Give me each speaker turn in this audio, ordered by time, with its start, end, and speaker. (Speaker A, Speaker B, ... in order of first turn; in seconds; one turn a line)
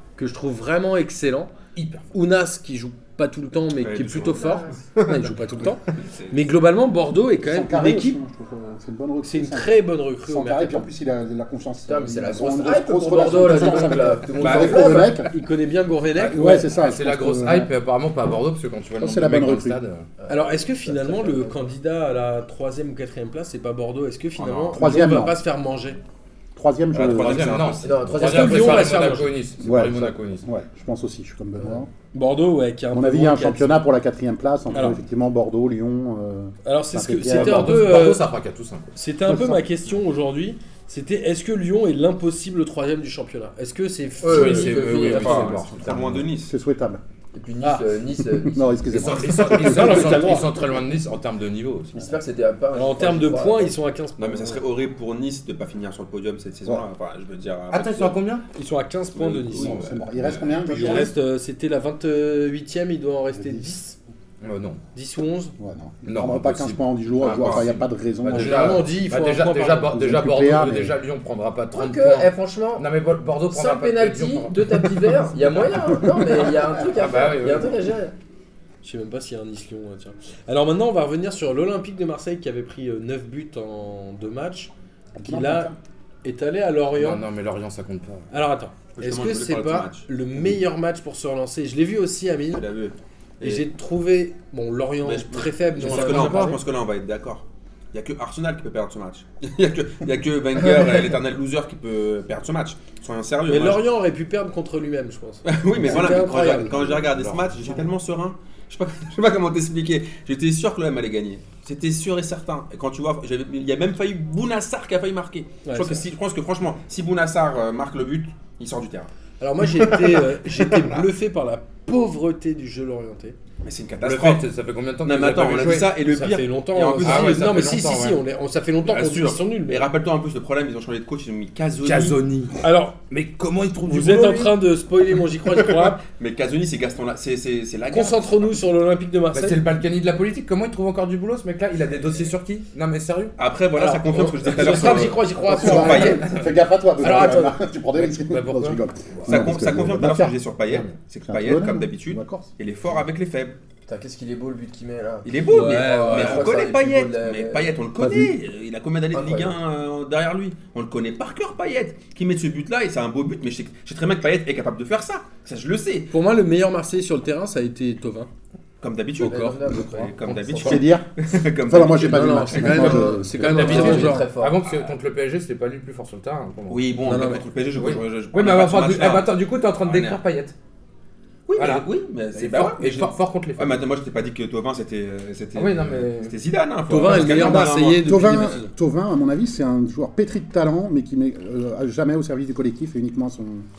Speaker A: 0.2-1.5
Speaker B: 1.8-2.1
Speaker A: 2.1-8.2
Speaker C: 3.8-5.3
Speaker D: 4.2-4.8
Speaker C: 5.9-6.4
Speaker E: 7.4-15.3
Speaker A: 9.2-10.9
Speaker D: 11.9-15.2
Speaker A: 13.4-13.8
Speaker B: 14.4-15.2
Speaker A: 14.6-16.7
Speaker E: 16.2-17.7
Speaker B: 16.2-20.1
Speaker E: 19.0-19.8
Speaker D: 20.2-21.6
Speaker A: 20.3-26.0
Speaker C: 24.4-24.8
Speaker E: 24.7-25.4
Speaker E: 26.6-27.6
Speaker C: 26.9-28.0
Speaker B: 27.0-30.5
Speaker D: 27.8-29.1
Speaker A: 28.1-29.3
Speaker E: 29.6-31.9
Speaker A: 32.1-33.8
Speaker E: 32.9-37.9
Speaker A: 34.7-35.0
Speaker A: 36.6-38.2
Speaker B: 37.3-38.9
Speaker A: 39.0-45.6
Speaker E: 39.3-39.6
Speaker D: 44.2-45.7
Speaker B: 44.2-46.3
Speaker C: 45.1-46.5
Speaker E: 46.5-47.0
Speaker D: 47.3-50.3
Speaker A: 47.6-47.9
Speaker E: 48.4-50.6
Speaker B: 48.9-52.1
Speaker A: 49.5-50.5
Speaker D: 52.0-53.7
Speaker A: 52.7-54.6
Speaker C: 54.2-58.2
Speaker B: 57.7-58.5
Speaker A: 58.5-59.8
Speaker C: 59.1-59.9
Speaker E: 59.5-61.1
Speaker A: 60.6-64.0
Speaker E: 63.4-63.7
Speaker B: 64.4-64.8
Speaker A: 64.9-65.5
Speaker E: 65.6-68.9
Speaker B: 66.1-75.4
Speaker C: 67.3-67.7
Speaker A: 68.3-70.0
Speaker E: 69.8-71.0
Speaker D: 71.7-72.8
Speaker D: 73.5-78.1
Speaker E: 76.0-76.7
Speaker B: 76.8-77.8
Speaker A: 78.8-85.7
Speaker E: 85.2-85.8
Speaker A: 86.2-87.2
Speaker B: 87.0-88.3
Speaker A: 88.3-92.6
Speaker C: 89.0-90.1
Speaker C: 92.5-93.7
Speaker A: 93.4-96.6
Speaker C: 95.0-103.8
Speaker B: 95.8-96.6
Speaker A: 103.5-106.9
Speaker C: 105.5-119.1
Speaker B: 106.5-107.8
Speaker A: 115.6-116.0
Speaker A: 119.4-123.4
Speaker C: 119.8-121.1
Speaker C: 123.6-124.5
Speaker B: 124.0-126.0
Speaker C: 125.0-127.7
Speaker A: 126.0-129.9
Speaker B: 127.0-128.2
Speaker C: 128.8-132.2
Speaker B: 131.8-134.6
Speaker A: 132.6-133.0
Speaker A: 133.8-136.0
Speaker C: 135.6-138.4
Speaker A: 137.9-139.6
Speaker B: 139.3-143.4
Speaker C: 143.4-146.3
Speaker A: 143.8-146.2
Speaker B: 144.6-145.0
Speaker E: 145.5-150.3
Speaker B: 145.8-146.3
Speaker A: 147.0-147.6
Speaker B: 148.0-149.7
Speaker C: 149.2-153.6
Speaker B: 150.7-151.0
Speaker E: 151.3-152.5
Speaker D: 153.9-157.8
Speaker C: 155.2-166.1
Speaker A: 155.5-156.6
Speaker E: 158.0-158.3
Speaker D: 159.1-159.5
Speaker A: 166.1-168.3
Speaker C: 168.8-173.0
Speaker A: 169.2-169.6
Speaker D: 169.2-170.9
Speaker B: 170.3-170.6
Speaker E: 170.6-171.1
Speaker E: 171.6-174.1
Speaker A: 172.1-174.3
Speaker D: 173.4-174.6
Speaker B: 173.4-177.1
Speaker C: 176.7-180.2
Speaker A: 177.1-177.4
Speaker B: 177.7-180.6
Speaker C: 181.5-188.4
Speaker B: 181.6-183.8
Speaker B: 185.6-186.4
Speaker A: 186.9-188.7
Speaker E: 187.1-193.7